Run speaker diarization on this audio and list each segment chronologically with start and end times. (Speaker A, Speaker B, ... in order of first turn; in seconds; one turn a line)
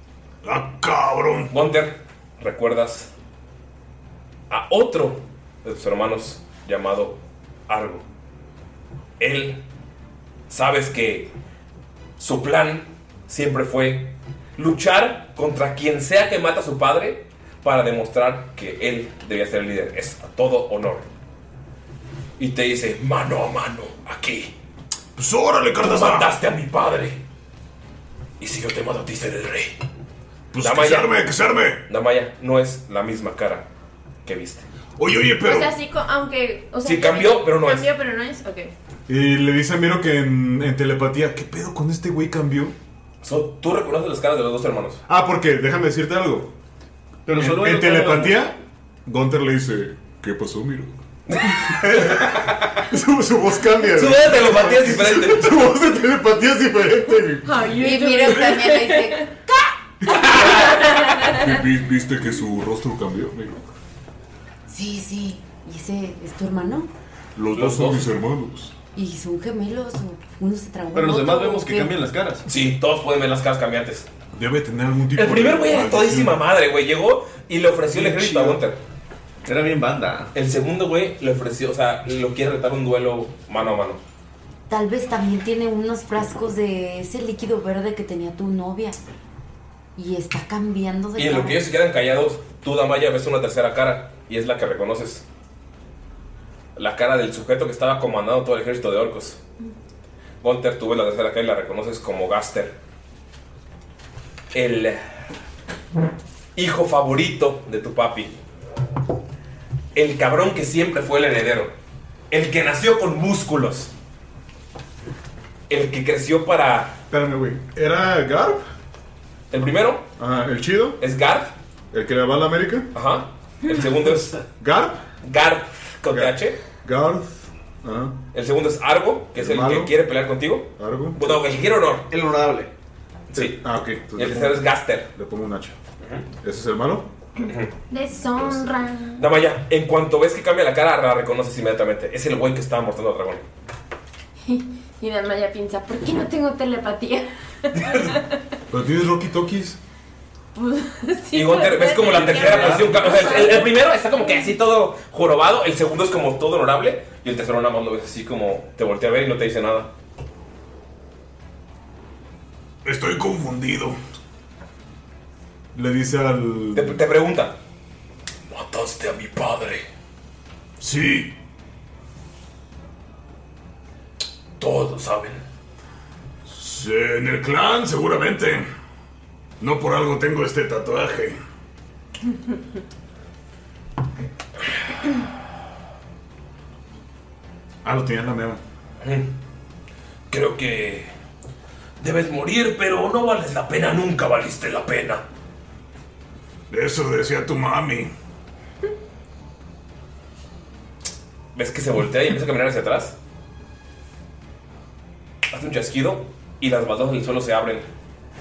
Speaker A: 0.4-1.5
Speaker B: 1.5-3.1
Speaker B: 4.5-8.0
Speaker B: 9.2-9.6
Speaker B: 10.5-11.3
Speaker B: 12.2-21.1
Speaker B: 22.4-24.5
Speaker A: 25.1-26.4
Speaker B: 25.8-27.2
Speaker B: 28.4-29.8
Speaker A: 30.5-31.8
Speaker B: 30.6-31.1
Speaker B: 31.9-33.6
Speaker B: 34.2-34.6
Speaker A: 35.0-35.7
Speaker C: 35.4-38.7
Speaker B: 36.8-37.9
Speaker D: 39.1-42.7
Speaker B: 43.2-45.0
Speaker D: 45.1-46.5
Speaker E: 47.2-48.5
Speaker D: 47.3-50.9
Speaker B: 51.3-52.5
Speaker D: 51.6-57.5
Speaker B: 53.9-55.5
Speaker C: 57.4-59.3
Speaker F: 57.8-59.3
Speaker B: 60.1-61.0
Speaker C: 60.1-61.5
Speaker D: 61.3-63.6
Speaker F: 64.7-66.9
Speaker A: 67.4-68.7
Speaker D: 67.5-68.5
Speaker B: 67.5-68.0
Speaker F: 68.9-71.9
Speaker E: 70.9-72.5
Speaker B: 72.5-74.1
Speaker D: 74.3-76.4
Speaker B: 75.1-78.8
Speaker G: 78.0-78.6
Speaker E: 79.5-80.3
Speaker B: 80.3-84.0
Speaker F: 84.7-89.0
Speaker F: 90.0-91.6
Speaker B: 91.2-95.2
Speaker B: 96.8-99.4
Speaker B: 100.4-102.7
Speaker B: 104.5-105.0
Speaker B: 106.5-108.3
Speaker B: 109.9-111.7
Speaker B: 112.3-113.9
Speaker B: 115.7-117.0
Speaker D: 117.1-118.6
Speaker B: 119.5-120.0
Speaker D: 120.2-121.0
Speaker B: 121.0-121.5
Speaker D: 121.9-122.9
Speaker B: 122.9-124.4
Speaker D: 124.6-125.0
Speaker B: 125.2-126.6
Speaker D: 126.1-128.2
Speaker B: 128.3-132.1
Speaker D: 129.3-129.9
Speaker D: 130.8-131.4
Speaker G: 132.1-132.7
Speaker B: 133.3-135.1
Speaker D: 133.3-134.6
Speaker D: 135.1-135.8
Speaker B: 136.0-136.3
Speaker D: 136.4-137.1
Speaker B: 137.4-137.7
Speaker C: 137.9-139.2
Speaker B: 139.2-143.4
Speaker C: 144.4-148.4
Speaker B: 147.8-148.2
Speaker D: 148.7-149.8
Speaker C: 150.5-154.4
Speaker B: 151.3-159.9
Speaker G: 152.1-153.1
Speaker A: 162.8-164.0
Speaker D: 165.7-167.0
Speaker B: 166.7-167.6
Speaker B: 168.5-169.8
Speaker A: 170.8-171.3
Speaker B: 174.6-175.4
Speaker A: 176.5-178.7
Speaker A: 179.6-181.4
Speaker D: 187.8-188.6
Speaker B: 189.0-189.3
Speaker B: 190.3-191.1
Speaker B: 192.0-195.2
Speaker A: 196.7-198.1
Speaker B: 201.5-203.2
Speaker B: 205.5-207.8